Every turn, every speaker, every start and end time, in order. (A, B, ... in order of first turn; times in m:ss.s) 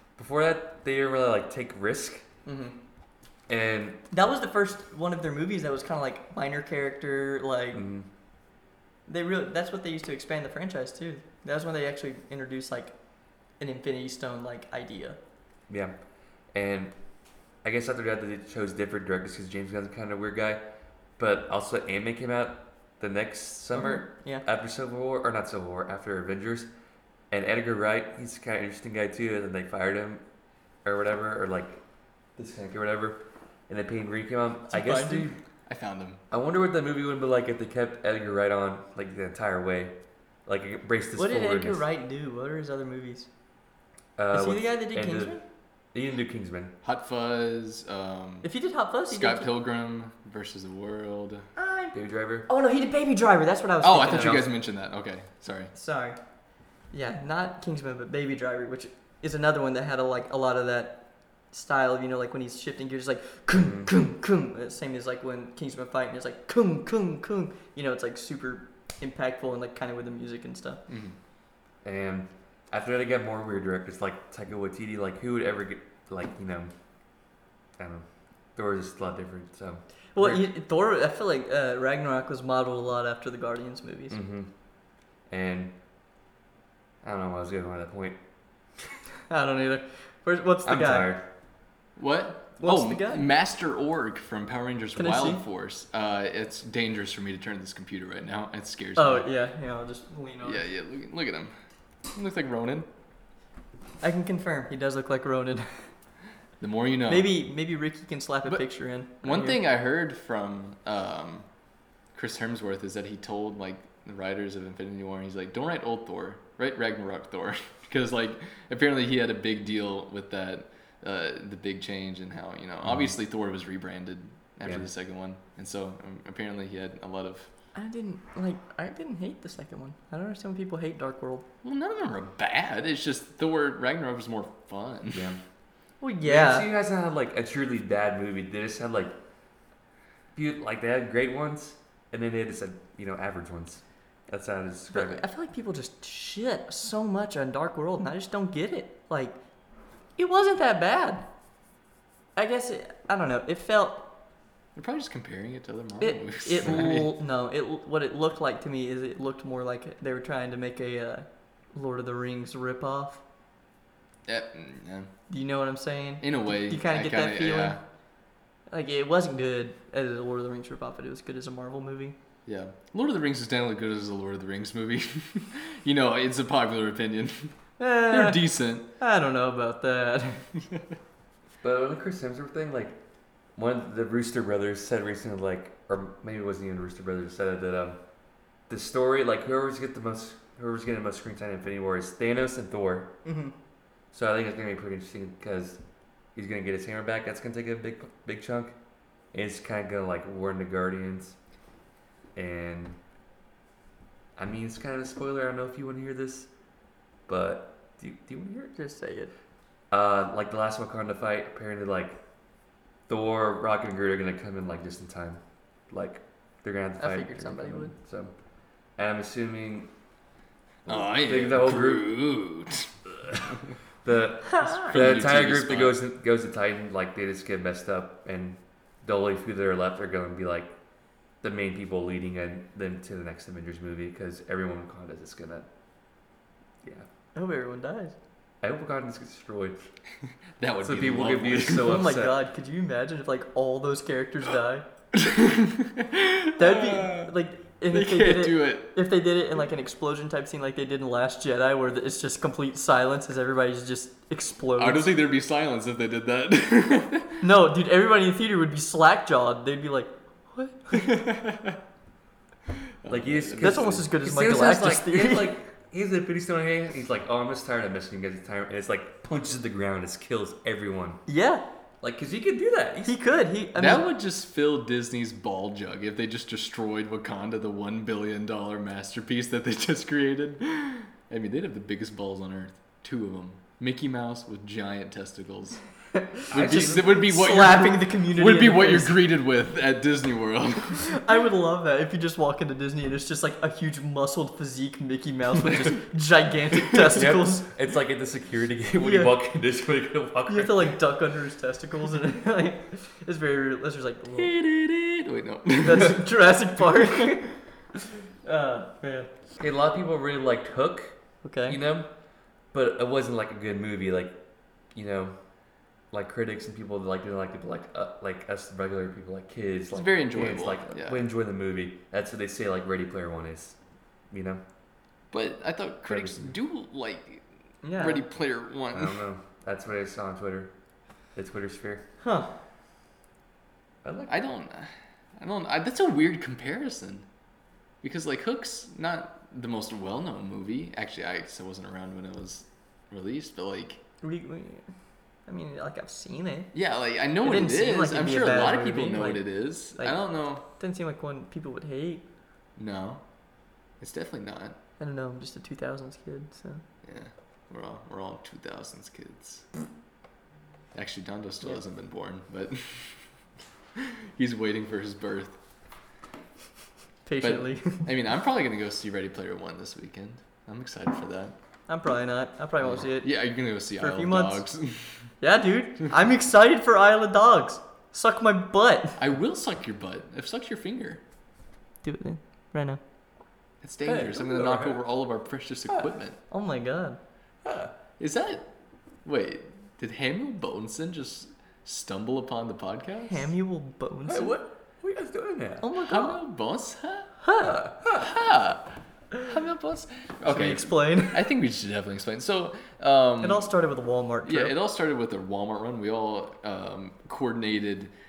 0:00.2-0:02.2 A
0:02.4-0:02.7 B
0:03.5-0:04.0 A
0:04.1-0:07.8 B
0:07.7-0:08.1 A
0:09.1-0:12.9 B
0:13.6-0:15.2 B
0:15.7-0:15.9 A
0:16.5-0:16.9 A
0:17.6-0:20.6 A
0:21.2-0:26.7 A
0:23.7-0:24.4 B
0:27.3-0:30.2 A
0:30.8-0:31.8 A
0:32.4-0:35.4 A
0:34.7-0:35.3 B
0:35.7-0:36.2 C
0:36.3-0:41.8 A
0:41.2-0:43.3 B
0:44.2-0:45.4 A
0:44.3-0:45.4 B
0:45.9-0:46.7 A
0:46.8-0:48.5 C
0:48.4-0:49.5 B
0:49.1-0:51.4 C
0:51.6-0:54.4 B
0:51.9-0:52.5 A
0:53.8-0:55.7 C
0:55.7-0:56.2 B
0:56.9-1:01.0 B
1:01.5-1:10.8 B
1:03.5-1:03.9 A
1:10.9-1:11.2 C
1:11.8-1:16.7 A
1:17.8-1:20.4 A
1:20.1-1:24.2 B
1:24.1-1:24.5 A
1:25.3-1:25.7 A
1:27.0-1:28.2 A
1:29.3-1:31.1 B
1:30.6-1:31.2 A
1:32.0-1:39.3 C
1:32.6-1:33.3 B
1:35.0-1:35.4 B
1:39.0-1:40.6 B
1:40.4-1:41.5 C
1:42.1-1:42.9 C
1:44.0-1:45.9 B
1:46.6-1:47.3 C
1:47.1-1:49.6 B
1:49.2-1:51.5 C
1:52.1-2:07.5 C
2:07.7-2:11.4 B
2:11.6-2:15.4 C
2:15.1-2:15.4 A
2:16.0-2:16.7 B
2:16.2-2:19.2 A
2:20.3-2:25.2 A
2:24.9-2:29.4 B
2:30.2-2:31.2 B
2:32.4-2:34.0 B
2:34.8-2:37.1 C
2:36.0-2:43.2 B
2:44.3-2:45.1 C
2:45.3-2:47.8 B
2:46.2-2:47.8 C
2:48.7-2:52.1 B
2:52.4-2:57.5 C
2:57.8-3:00.4 B
2:58.1-2:58.9 C
3:01.6-3:03.0 A
3:03.6-3:08.0 A
3:08.7-3:13.1 A
3:13.2-3:13.5 B
3:14.1-3:15.8 A
3:16.3-3:18.8 A
3:19.3-3:21.4 A
3:22.3-3:23.0 A
3:24.4-3:26.5 A
3:27.3-3:28.7 A
3:28.8-3:29.3 B
3:29.9-3:32.2 A
3:33.1-3:38.3 A
3:37.0-3:37.9 B
3:39.0-3:39.9 A
3:40.8-3:42.1 A
3:40.9-3:42.9 C
3:43.2-3:50.7 A
3:44.6-3:44.8 B
3:44.7-3:46.0 C
3:51.4-3:55.7 A
3:56.8-3:57.1 A
3:57.3-3:58.1 B
3:58.6-3:59.9 A
4:00.6-4:01.9 C
4:00.8-4:02.4 A
4:01.8-4:04.8 B
4:05.1-4:07.3 C
4:06.6-4:15.1 B
4:07.9-4:08.9 C
4:14.8-4:17.4 C
4:17.4-4:21.2 B
4:20.9-4:21.8 C
4:23.0-4:24.0 C
4:23.1-4:31.2 A
4:23.6-4:25.5 B
4:31.3-4:31.6 B
4:32.0-4:33.2 A
4:33.0-4:34.1 B
4:33.8-4:45.8 C
4:46.2-4:49.2 B
4:46.5-4:51.1 C
4:46.5-4:47.1 A
4:51.0-4:57.7 B
4:57.1-5:00.9 A
4:59.0-4:59.3 B
5:00.5-5:04.5 B
5:04.3-5:06.3 C
5:05.8-5:09.3 B
5:09.6-5:12.1 A
5:11.4-5:11.8 B
5:12.7-5:14.4 A
5:14.9-5:15.4 A
5:16.1-5:23.8 A
5:19.9-5:21.2 C
5:24.3-5:24.6 A
5:25.3-5:27.4 C
5:26.1-5:26.5 A
5:27.8-5:28.2 B
5:28.0-5:29.2 C
5:28.9-5:30.7 A
5:31.3-5:32.0 A
5:32.2-5:32.5 B
5:34.0-5:34.4 A
5:34.3-5:37.2 C
5:38.0-5:44.0 C
5:44.2-5:44.9 B
5:45.5-5:46.7 B
5:46.7-5:50.6 C
5:47.4-5:49.4 B
5:50.0-5:52.2 B
5:52.8-5:53.2 C
5:54.0-5:54.8 C
5:55.0-5:56.8 B
5:57.0-5:59.6 C
6:00.9-6:03.2 C
6:04.0-6:05.6 C
6:07.2-6:08.0 B
6:07.4-6:11.5 C
6:11.9-6:13.3 B
6:12.8-6:15.2 C
6:14.0-6:14.6 B
6:15.4-6:19.2 B
6:19.2-6:21.2 C
6:22.0-6:23.0 B
6:23.8-6:26.4 C
6:24.0-6:25.0 A
6:26.5-6:27.2 B
6:27.6-6:27.9 A
6:28.2-6:28.7 C
6:29.2-6:33.5 C
6:33.2-6:34.6 B
6:34.3-6:35.9 A
6:35.8-6:36.4 B
6:36.0-6:37.3 C
6:37.4-6:37.9 B
6:37.6-6:38.3 A
6:38.2-6:43.7 C
6:40.4-6:41.5 B
6:43.4-6:44.7 B
6:44.4-6:48.1 C